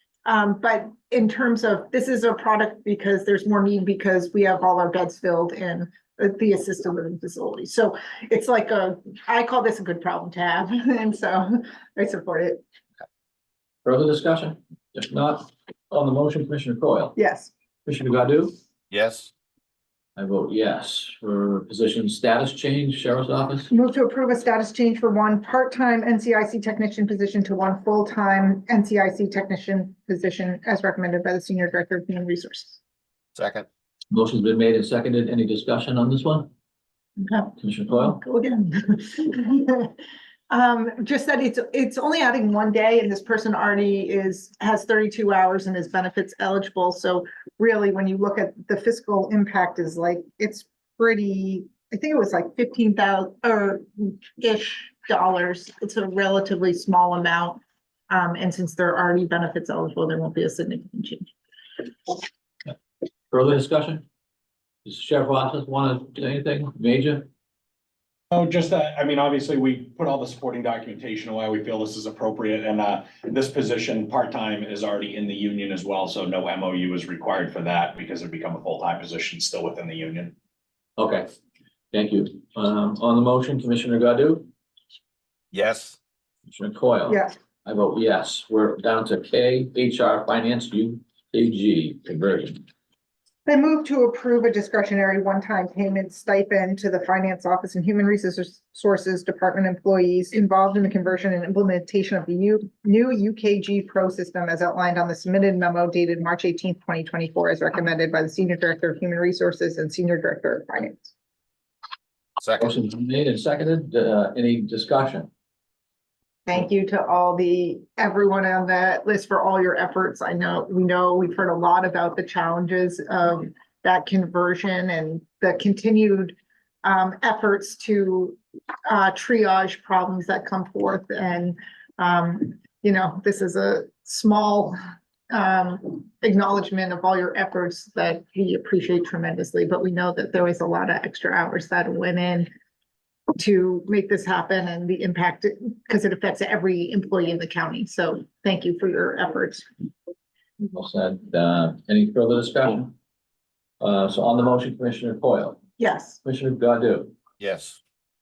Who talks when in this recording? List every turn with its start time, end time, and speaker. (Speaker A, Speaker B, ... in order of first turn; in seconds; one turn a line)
Speaker A: 0.2-12.6
Speaker B: 13.8-17.1
Speaker A: 17.1-17.5
Speaker B: 17.9-18.5
Speaker C: 18.9-19.3
Speaker B: 20.2-23.7
Speaker A: 23.7-32.8
Speaker C: 33.3-33.7
Speaker B: 34.1-36.5
Speaker A: 37.2-39.9
Speaker B: 37.6-38.2
Speaker A: 40.5-61.3
Speaker B: 63.3-64.0
Speaker B: 64.8-67.3
Speaker D: 68.3-80.3
Speaker B: 81.0-81.3
Speaker B: 81.9-84.5
Speaker C: 85.5-86.0
Speaker B: 86.5-92.6
Speaker A: 87.1-87.3
Speaker A: 93.5-111.1
Speaker C: 112.4-112.7
Speaker B: 112.6-115.3
Speaker A: 116.5-134.7
Speaker A: 135.3-142.5
Speaker A: 143.4-149.7
Speaker B: 150.7-152.9
Speaker B: 153.8-155.6
Speaker A: 155.8-156.2
Speaker B: 156.2-157.1
Speaker C: 157.4-157.8